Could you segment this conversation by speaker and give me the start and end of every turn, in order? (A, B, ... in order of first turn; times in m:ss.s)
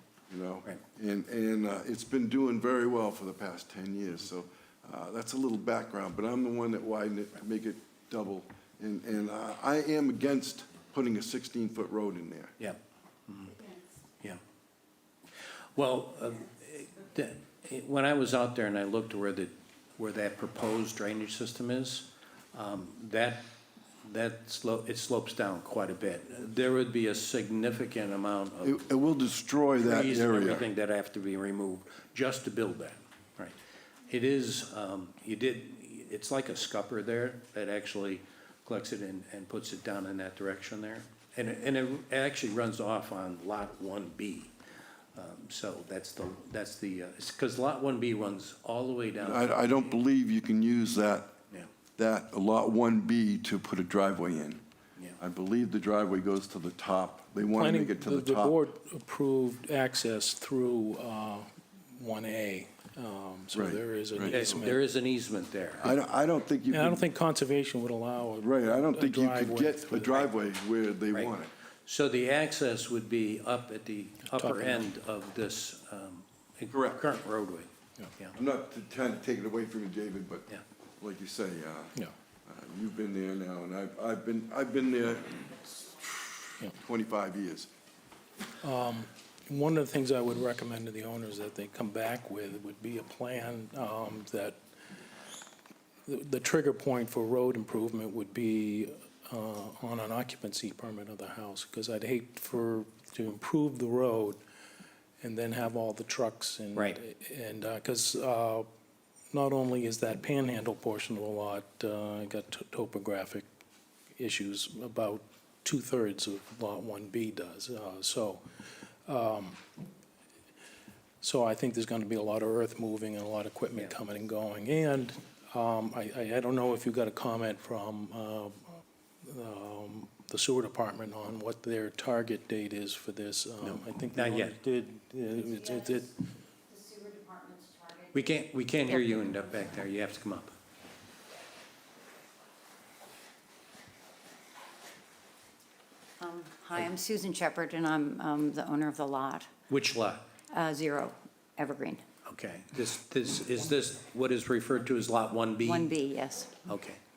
0:00.3-0:12.6 A
0:12.6-0:13.6 B
0:15.8-0:23.4 B
0:24.0-0:28.8 B
0:28.6-0:30.6 A
0:29.8-0:33.6 B
0:34.1-0:44.5 B
0:45.2-0:49.9 B
0:49.2-0:51.3 A
0:52.0-0:54.6 A
0:55.2-0:58.6 A
0:57.5-1:04.8 C
1:03.5-1:04.6 A
1:04.3-1:05.9 B
1:05.8-1:07.0 A
1:06.7-1:10.3 C
1:08.4-1:11.5 A
1:11.9-1:18.4 B
1:14.3-1:14.9 C
1:16.7-1:17.0 A
1:18.4-1:20.5 A
1:21.0-1:27.7 A
1:28.6-1:34.6 C
1:36.1-1:44.4 C
1:45.2-1:48.7 C
1:49.3-1:53.5 C
1:54.2-1:58.4 C
1:59.1-1:59.6 C
2:01.2-2:16.2 C
2:13.6-2:14.6 B
2:15.5-2:16.1 D
2:16.7-2:19.4 D
2:18.1-2:20.6 B
2:26.2-2:29.5 D
2:29.7-2:30.2 B
2:30.5-2:32.0 D
2:32.3-2:35.9 B
2:35.6-2:36.6 D
2:36.6-2:37.0 B